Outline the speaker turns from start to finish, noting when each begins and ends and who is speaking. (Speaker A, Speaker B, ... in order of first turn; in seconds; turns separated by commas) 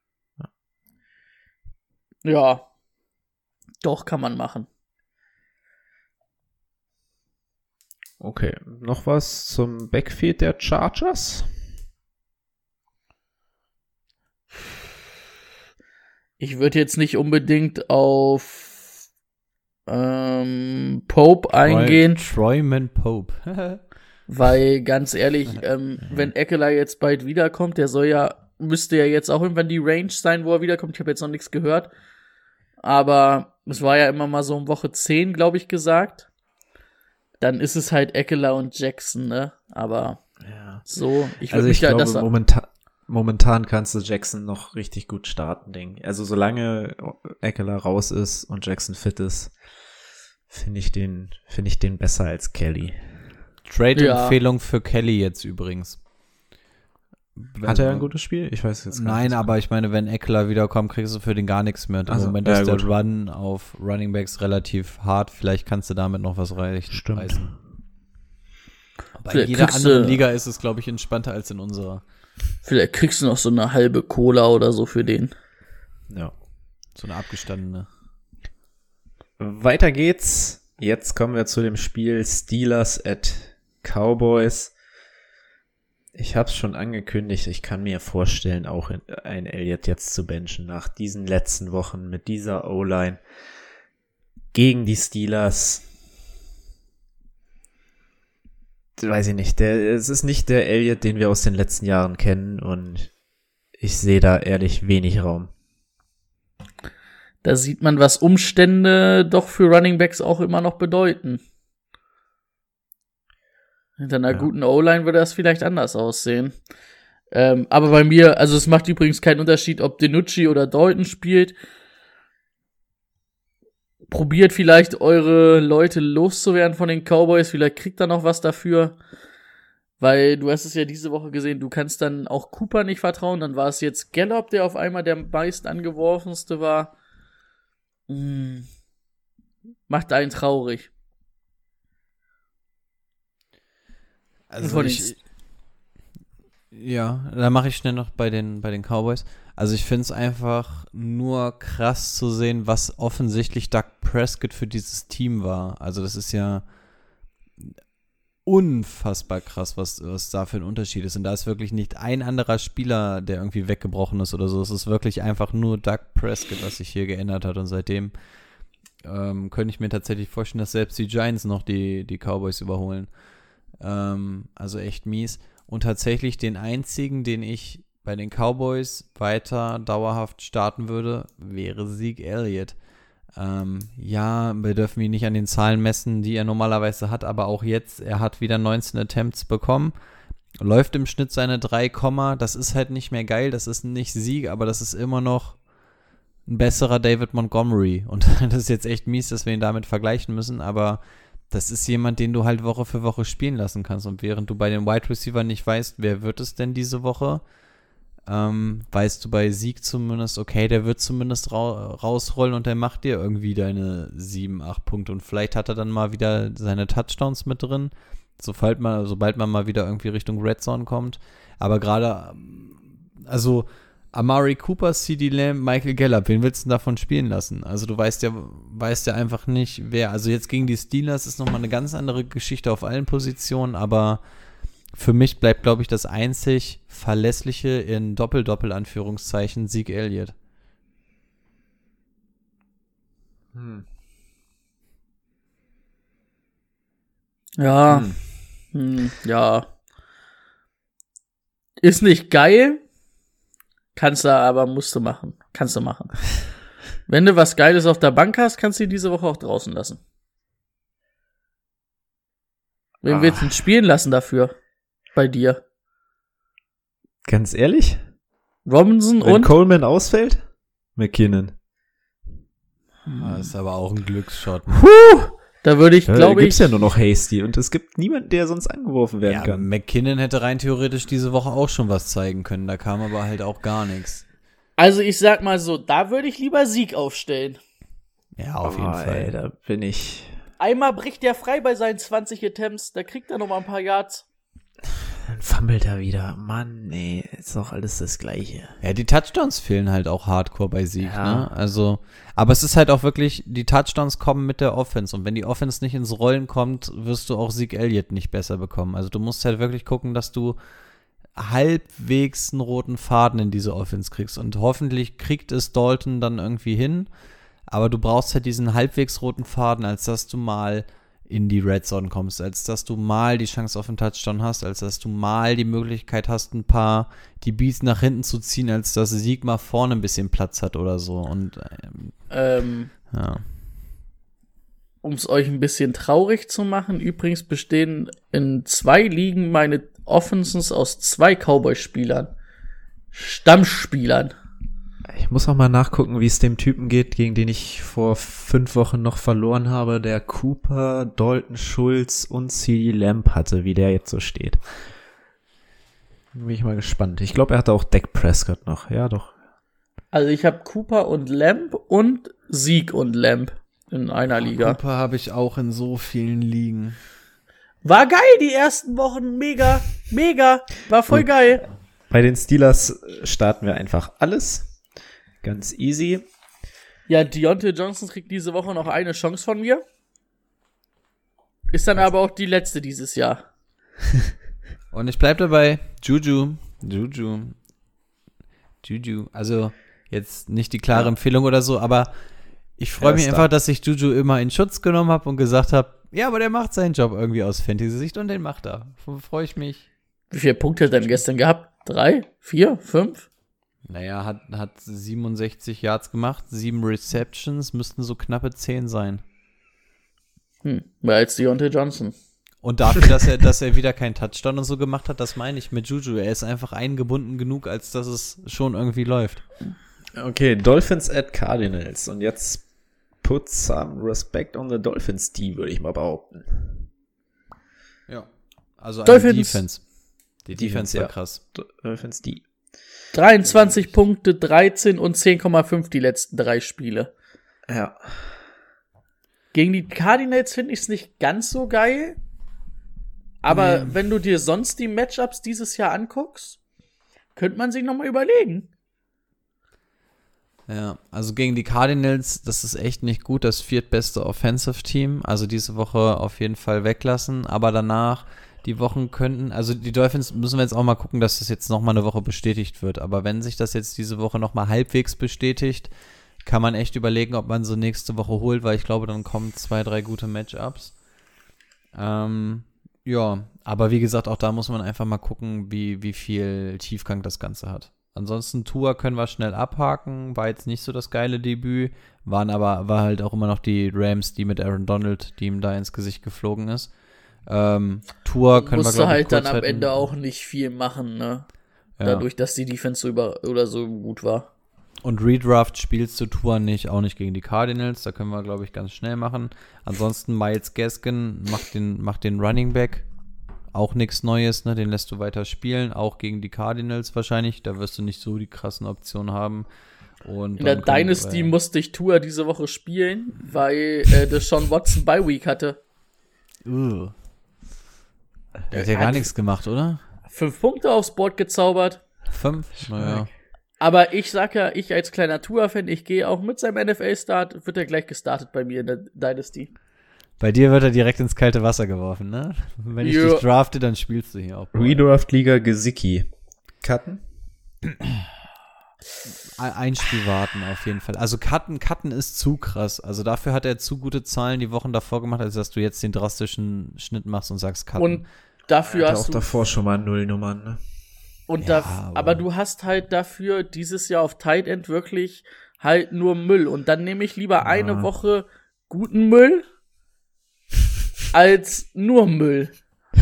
Speaker A: 2.2-2.6, Speaker A: 3.8-4.7, Speaker B: 8.2-11.6, Speaker A: 16.4-18.8, Speaker A: 19.9-22.2, Speaker C: 21.6-23.8, Speaker A: 24.3-31.9, Speaker A: 32.8-36.3, Speaker A: 37.4-40.2, Speaker B: 40.4-40.9, Speaker A: 40.9-42.3, Speaker B: 41.4-49.5, Speaker B: 50.5-53.3, Speaker C: 53.6-56.0, Speaker A: 54.0-54.4, Speaker C: 57.4-58.1, Speaker B: 57.6-59.5, Speaker C: 58.9-67.5, Speaker B: 62.0-62.9, Speaker B: 66.9-67.5, Speaker C: 69.2-72.0, Speaker A: 69.3-70.2, Speaker A: 72.6-75.3, Speaker C: 76.9-77.9, Speaker B: 79.4-84.7, Speaker B: 86.1-93.2, Speaker B: 94.5-95.8, Speaker B: 99.0-103.1, Speaker B: 103.8-105.5, Speaker A: 107.4-111.4, Speaker A: 114.0-116.5, Speaker A: 117.3-121.5, Speaker A: 124.1-129.0, Speaker A: 130.0-136.9, Speaker A: 138.1-138.7, Speaker A: 139.9-140.9, Speaker C: 144.5-145.2, Speaker A: 144.6-145.1, Speaker C: 146.7-156.7, Speaker C: 158.4-168.1, Speaker C: 169.0-173.1, Speaker C: 173.7-182.8, Speaker C: 183.3-189.9, Speaker C: 190.6-195.7, Speaker C: 196.4-207.4, Speaker C: 208.3-234.2, Speaker C: 234.9-240.3, Speaker B: 243.5-243.8, Speaker A: 247.6-248.1, Speaker B: 247.9-248.2, Speaker A: 248.7-249.7, Speaker A: 251.8-252.8, Speaker A: 253.9-256.2, Speaker A: 257.1-260.0, Speaker A: 263.0-264.6, Speaker B: 263.0-263.5, Speaker A: 265.1-265.6, Speaker B: 267.2-268.0, Speaker A: 268.6-269.5, Speaker B: 269.2-271.5, Speaker A: 273.1-273.5, Speaker C: 273.2-274.9, Speaker A: 274.8-276.7, Speaker B: 276.1-279.7, Speaker C: 279.2-284.2, Speaker A: 284.8-287.6, Speaker C: 288.4-289.3, Speaker B: 288.6-290.4, Speaker A: 290.6-294.2, Speaker B: 295.2-298.8, Speaker C: 298.8-310.6, Speaker B: 301.0-301.5, Speaker C: 311.4-317.1, Speaker C: 317.7-332.3, Speaker A: 332.3-332.9, Speaker C: 333.1-333.5, Speaker A: 335.0-342.3, Speaker A: 343.1-344.3, Speaker B: 345.1-354.6, Speaker B: 356.3-359.3, Speaker A: 360.1-364.8, Speaker C: 364.4-367.0, Speaker A: 367.8-371.6, Speaker B: 372.1-374.7, Speaker B: 375.4-376.2, Speaker A: 377.1-379.8, Speaker A: 381.7-383.4, Speaker C: 384.9-387.6, Speaker C: 388.8-392.1, Speaker C: 392.8-399.9, Speaker B: 393.0-393.5, Speaker A: 400.3-403.3, Speaker C: 403.9-409.2, Speaker A: 410.6-412.1, Speaker C: 412.6-419.4, Speaker B: 420.1-422.6, Speaker B: 423.2-426.9, Speaker C: 428.1-431.4, Speaker A: 429.0-429.6, Speaker B: 430.6-432.4, Speaker A: 433.1-437.1, Speaker B: 433.4-433.9, Speaker B: 437.7-438.3, Speaker A: 439.5-442.1, Speaker A: 443.4-446.6, Speaker C: 443.5-443.9, Speaker A: 447.3-448.7, Speaker C: 450.7-465.9, Speaker C: 466.4-471.0, Speaker C: 471.9-490.1, Speaker A: 488.6-491.5, Speaker C: 492.0-492.2, Speaker A: 492.0-494.5, Speaker C: 495.0-503.1, Speaker C: 503.7-509.7, Speaker C: 510.2-511.5, Speaker A: 510.6-515.8, Speaker C: 516.6-517.1, Speaker C: 518.7-520.0, Speaker A: 518.7-519.2, Speaker A: 520.3-522.0, Speaker C: 522.3-523.3, Speaker B: 522.9-523.3, Speaker A: 523.8-529.7, Speaker C: 530.4-535.0, Speaker A: 533.0-533.4, Speaker B: 534.7-537.2, Speaker C: 539.6-548.3, Speaker A: 548.0-549.5, Speaker B: 548.9-550.8, Speaker A: 551.5-559.6, Speaker C: 551.6-552.4, Speaker B: 557.6-558.1, Speaker A: 561.3-562.7